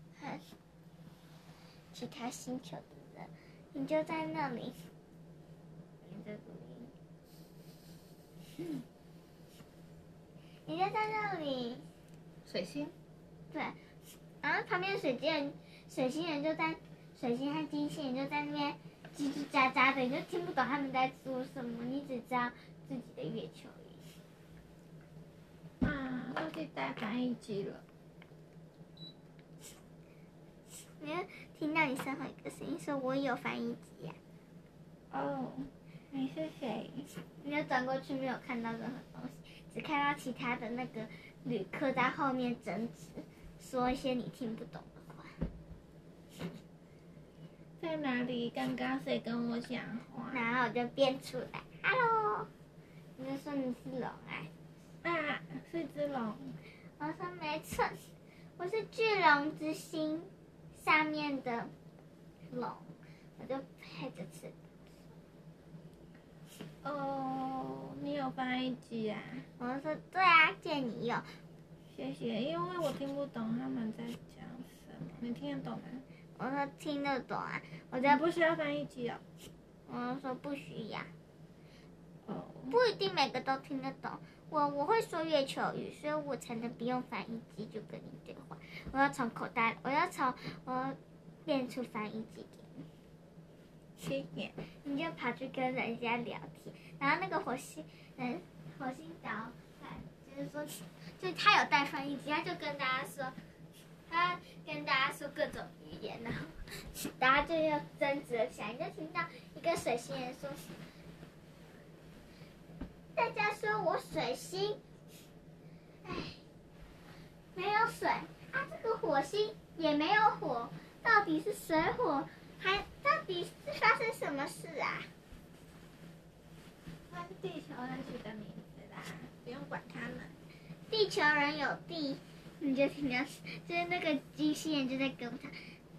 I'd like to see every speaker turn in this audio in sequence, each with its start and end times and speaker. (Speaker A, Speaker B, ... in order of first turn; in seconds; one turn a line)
Speaker A: 0.2-0.5
Speaker A: 1.9-4.7
Speaker A: 6.0-6.9
Speaker A: 10.7-11.8
Speaker B: 12.4-12.9
Speaker A: 13.5-13.8
Speaker A: 14.4-24.1
Speaker B: 25.8-27.8
Speaker A: 31.0-34.2
Speaker B: 35.1-37.1
Speaker A: 37.4-45.4
Speaker B: 47.8-50.4
Speaker A: 50.3-52.5
Speaker A: 53.2-54.5
Speaker B: 55.0-56.5
Speaker A: 57.0-58.1
Speaker A: 58.6-61.7
Speaker A: 62.5-64.6
Speaker B: 66.8-69.5
Speaker A: 69.6-71.2
Speaker B: 71.9-76.0
Speaker A: 76.4-78.2
Speaker B: 78.0-79.2
Speaker A: 79.9-81.1
Speaker B: 82.2-82.8
Speaker A: 82.7-92.8
Speaker B: 94.0-94.5
Speaker A: 94.8-103.3
Speaker A: 104.1-110.7
Speaker A: 113.2-114.8
Speaker A: 116.0-116.4
Speaker A: 117.5-125.1
Speaker B: 127.1-130.4
Speaker A: 130.9-135.5